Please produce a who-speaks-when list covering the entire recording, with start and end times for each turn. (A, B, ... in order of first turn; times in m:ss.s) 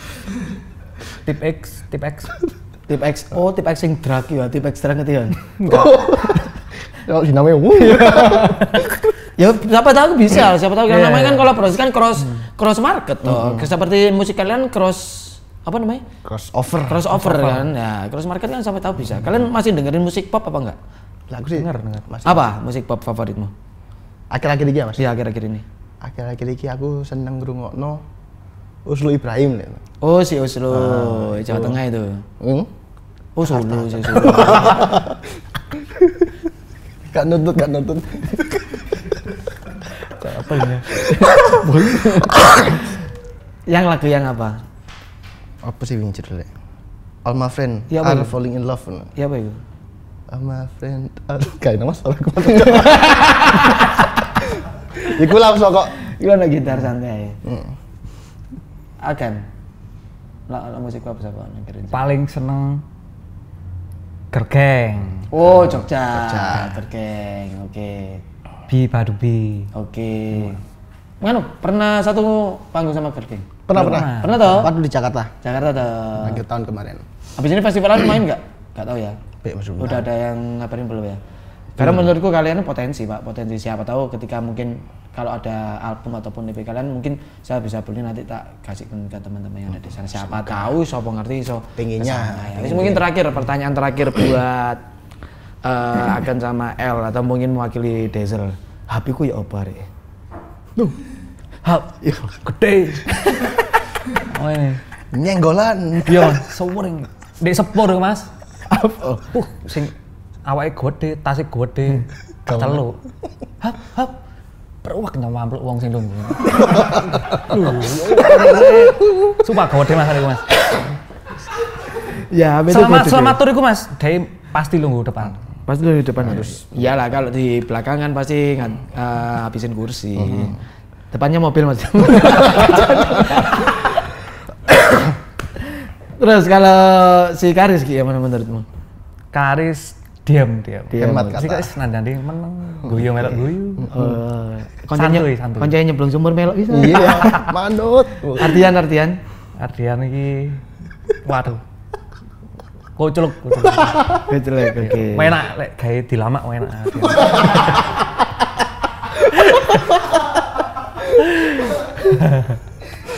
0:01.2-0:02.4 A
0:02.9-0:05.9 B
0:05.6-0:09.1 C
0:07.8-0:16.0 B
0:10.9-0:11.6 A
0:13.2-0:13.7 C
0:16.2-0:17.1 C
0:16.8-0:20.8 B
0:17.1-0:17.7 A
0:21.3-0:22.5 C
0:21.6-0:22.1 A
0:22.2-0:23.5 B
0:24.3-0:25.0 C
0:25.0-0:25.6 B
0:26.0-0:28.0 C
0:28.8-0:29.8 C
0:30.0-0:32.3 B
0:30.7-0:31.8 C
0:32.4-0:32.7 C
0:33.4-0:35.0 B
0:33.5-0:36.3 C
0:37.1-0:39.4 C
0:40.1-0:40.9 A
0:40.9-0:42.8 C
0:41.5-0:42.9 B
0:43.7-0:44.6 B
0:45.6-0:46.5 C
0:47.2-0:49.1 C
0:47.9-0:48.4 B
0:49.2-0:49.6 B
0:50.3-0:53.6 C
0:52.6-0:54.0 B
0:54.2-0:56.0 C
0:56.0-0:57.4 B
0:57.4-0:57.8 C
0:59.0-0:59.4 B
1:00.5-1:02.1 B
1:01.9-1:02.8 A
1:04.3-1:05.3 A
1:05.3-1:08.2 B
1:05.4-1:06.8 C
1:08.7-1:09.7 A
1:09.7-1:10.6 B
1:11.2-1:14.7 B
1:13.7-1:15.3 C
1:13.7-1:14.7 A
1:15.4-1:16.4 B
1:16.2-1:17.0 C
1:17.4-1:19.2 B
1:19.4-1:20.1 C
1:19.8-1:21.2 B
1:21.8-1:22.1 C
1:21.8-1:34.8 B
1:30.0-1:30.8 C
1:31.8-1:33.1 C
1:35.6-1:39.9 B
1:41.6-1:42.0 B
1:42.4-1:43.6 A
1:44.1-1:44.8 A
1:45.1-1:46.4 C
1:46.0-1:48.3 A
1:48.7-1:49.3 B
1:49.3-1:49.9 A
1:50.5-1:53.0 A
1:52.5-1:52.9 C
1:53.6-1:54.2 A
1:54.8-2:00.6 A
1:56.5-1:57.4 C
1:57.5-1:58.3 B
2:02.1-2:03.4 B
2:02.7-2:05.4 A
2:05.7-2:10.6 B
2:06.2-2:06.9 C
2:10.3-2:10.5 C
2:11.1-2:14.1 B
2:12.7-2:13.0 C
2:14.7-2:15.6 B
2:16.2-2:18.7 B
2:19.3-2:24.0 A
2:20.9-2:21.4 B
2:21.0-2:21.7 C
2:23.9-2:27.5 B
2:24.9-2:25.8 A
2:26.7-2:28.7 C
2:27.1-2:27.5 A
2:28.4-2:29.2 B
2:29.6-2:31.6 A
2:33.0-2:34.2 A
2:34.2-2:35.4 B
2:34.8-2:37.9 A
2:39.4-2:39.8 A
2:42.1-2:42.6 A